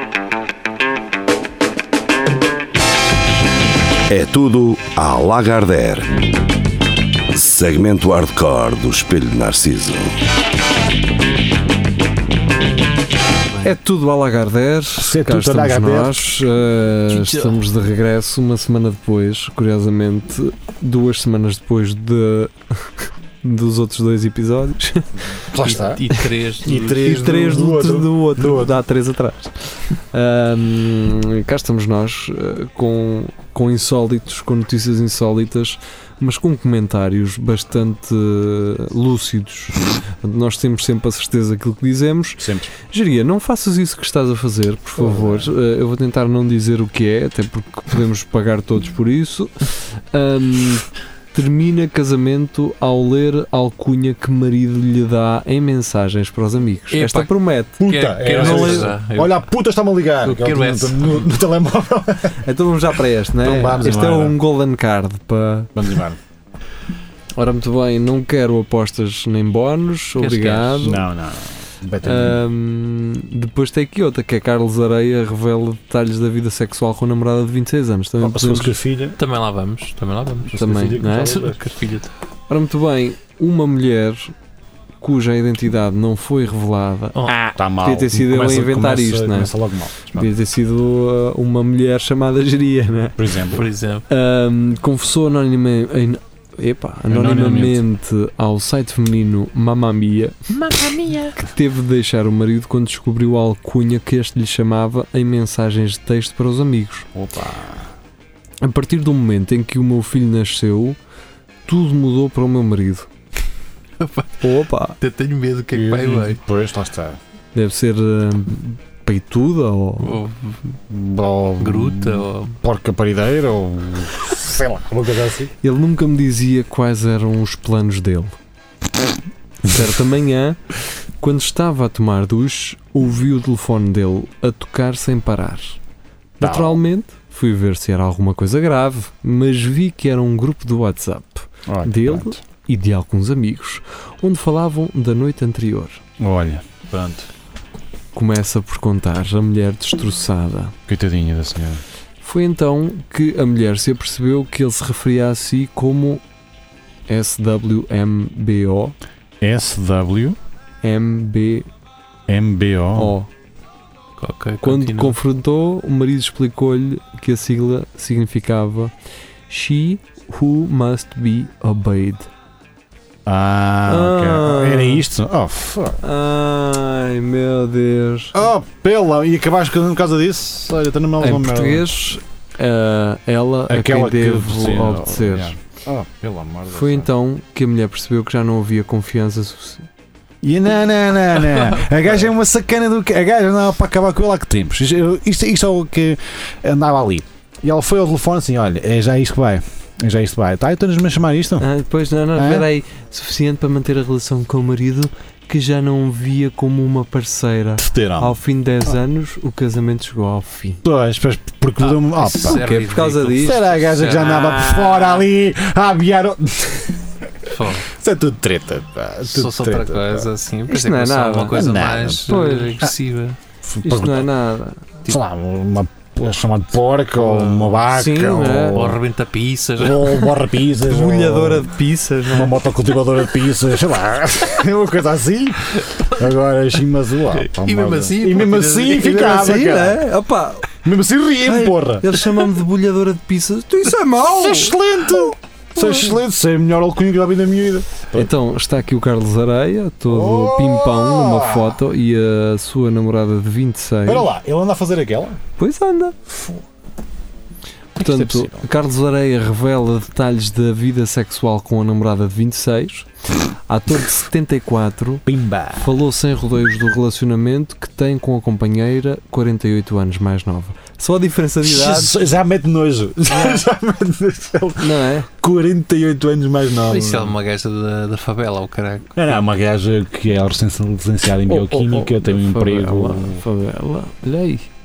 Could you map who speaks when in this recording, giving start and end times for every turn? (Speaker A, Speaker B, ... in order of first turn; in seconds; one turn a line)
Speaker A: 4.1-6.2
Speaker A: 7.3-10.1
Speaker B: 13.6-25.1
Speaker C: 15.0-16.2
Speaker D: 17.1-17.6
Speaker C: 25.4-26.1
Speaker D: 25.6-27.1
Speaker C: 26.6-28.8
Speaker B: 27.0-58.9
Speaker C: 42.4-42.7
Speaker C: 45.0-45.5
Speaker D: 56.9-59.4
Speaker C: 57.8-62.4
Speaker D: 60.2-61.4
Speaker B: 62.4-65.8
Speaker C: 63.4-64.4
Speaker C: 65.7-66.2
Speaker B: 67.3-71.0
Speaker D: 70.2-70.8
Speaker C: 70.8-72.4
Speaker B: 72.0-78.7
Speaker C: 78.2-79.2
Speaker D: 79.2-82.1
Speaker C: 80.5-81.6
Speaker B: 80.5-81.5
Speaker B: 82.5-84.3
Speaker B: 85.0-93.2
Speaker C: 87.5-90.3
Speaker C: 93.2-93.6
Speaker D: 93.5-94.0
Speaker B: 94.1-100.3
Speaker C: 97.1-97.8
Speaker D: 100.5-101.4
Speaker B: 101.4-107.1
Speaker C: 107.1-107.9
Speaker B: 108.6-111.0
Speaker B: 111.7-113.1
Speaker D: 114.0-116.4
Speaker B: 114.4-115.0
Speaker C: 115.7-117.2
Speaker B: 117.5-120.2
Speaker D: 120.0-120.8
Speaker C: 120.9-125.5
Speaker D: 121.6-122.6
Speaker B: 125.6-128.3
Speaker B: 129.7-130.6
Speaker B: 131.2-135.8
Speaker B: 136.4-146.0
Speaker C: 136.4-136.8
Speaker C: 141.7-142.4
Speaker C: 146.2-147.3
Speaker B: 148.1-150.7
Speaker C: 150.9-151.8
Speaker B: 152.2-156.2
Speaker B: 157.1-158.9
Speaker C: 159.4-160.4
Speaker B: 160.8-161.7
Speaker C: 162.3-163.2
Speaker B: 162.9-163.3
Speaker D: 164.2-165.2
Speaker B: 164.6-168.9
Speaker B: 169.5-172.3
Speaker C: 173.2-176.0
Speaker B: 173.8-175.1
Speaker B: 176.0-178.4
Speaker C: 178.3-181.9
Speaker B: 181.2-185.6
Speaker C: 183.7-187.1
Speaker B: 186.7-189.9
Speaker C: 190.4-201.7
Speaker B: 201.6-210.8
Speaker C: 202.3-202.7
Speaker C: 207.8-208.9
Speaker C: 210.8-212.6
Speaker D: 211.8-214.6
Speaker B: 212.5-213.6
Speaker C: 213.3-220.3
Speaker B: 214.2-215.2
Speaker D: 217.4-217.9
Speaker D: 219.2-223.4
Speaker B: 220.7-221.6
Speaker C: 221.5-222.9
Speaker B: 222.3-222.9
Speaker C: 223.6-224.3
Speaker B: 223.8-224.9
Speaker C: 225.1-229.0
Speaker D: 227.1-227.8
Speaker B: 227.9-228.8
Speaker D: 228.7-230.3
Speaker C: 229.8-231.7
Speaker B: 230.8-232.5
Speaker C: 232.3-240.1
Speaker D: 237.4-239.5
Speaker B: 239.1-240.7
Speaker C: 240.8-242.1
Speaker B: 241.4-244.8
Speaker C: 244.2-248.3
Speaker B: 245.8-246.1
Speaker B: 248.1-254.3
Speaker C: 250.1-251.8
Speaker C: 254.1-255.4
Speaker B: 255.6-256.1
Speaker C: 256.3-256.6
Speaker C: 257.9-258.7
Speaker B: 258.0-265.2
Speaker C: 265.2-265.9
Speaker B: 265.8-272.1
Speaker C: 271.6-277.4
Speaker B: 273.3-273.6
Speaker B: 274.8-275.3
Speaker D: 276.9-279.2
Speaker C: 279.1-283.4
Speaker B: 281.5-284.7